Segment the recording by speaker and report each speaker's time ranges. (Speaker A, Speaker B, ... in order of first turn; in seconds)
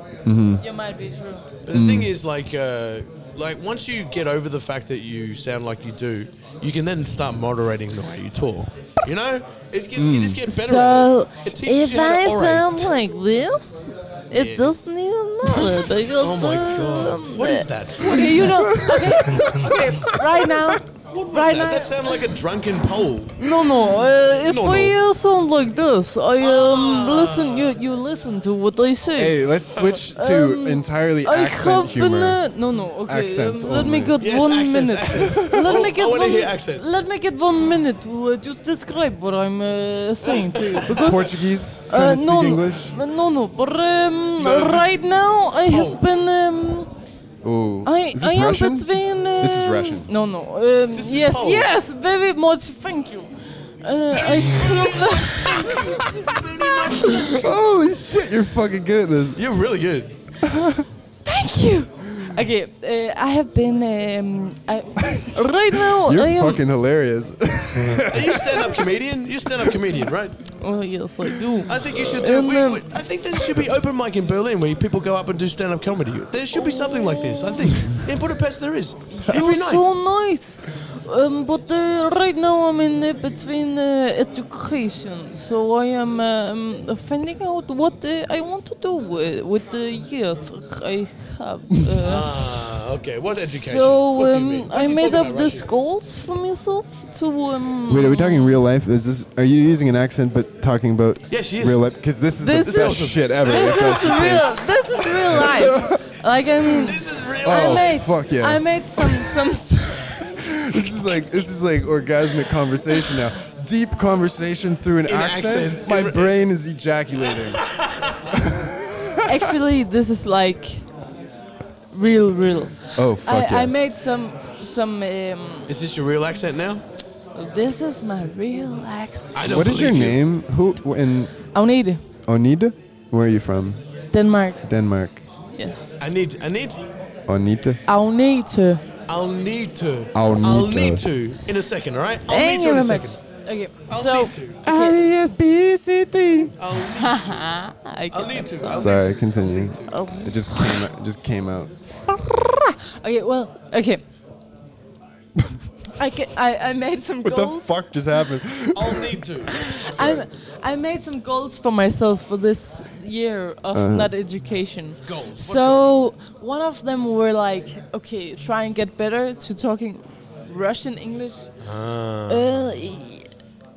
Speaker A: 0.2-0.6, 1.7-2.1, 9.9-10.4, 18.2-20.4, 29.1-32.4, 33.0-34.1, 40.9-42.9, 47.4-50.1, 57.1-59.4, 65.2-68.9, 72.0-72.2, 97.9-106.0, 107.4-109.3, 110.3-117.7, 118.3-119.5, 123.0-123.7, 129.4-131.3, 132.2-133.8, 134.6-135.2, 137.3-137.8, 140.1-141.1, 144.6-146.5, 148.7-151.7, 157.2-159.2, 163.7-164.1
Speaker B: 0.6-1.4, 10.5-22.2, 23.4-29.6, 30.1-46.9, 47.8-56.2, 61.2-66.6, 70.6-72.9, 76.5-77.9, 79.1-92.6, 93.3-98.6, 102.4-110.3, 119.2-120.8, 121.9-125.7, 127.3-129.3, 131.5-132.0, 134.1-134.6, 135.5-135.9, 137.8-138.8, 142.3-145.0, 146.8-149.0, 149.9-150.8, 152.1-154.0, 156.0-157.8, 159.7-171.5, 172.3-173.3
Speaker C: 1.6-12.9, 14.3-14.7, 15.5-18.5, 21.1-23.5, 24.4-25.0, 26.4-27.7, 34.2-36.8, 40.2-41.2, 44.4-44.9, 45.6-46.0, 50.9-51.7, 54.1-57.5, 59.3-60.1, 68.0-70.4, 71.7-79.9, 92.0-95.7, 101.3-101.9, 102.6-104.4, 106.6-108.0, 115.0-116.3, 117.3-118.2, 125.7-126.8, 129.3-130.2, 136.0-136.8, 139.1-143.2, 143.9-144.6, 146.6-147.4, 148.1-150.0, 158.7-160.2, 165.0-165.9, 171.6-172.5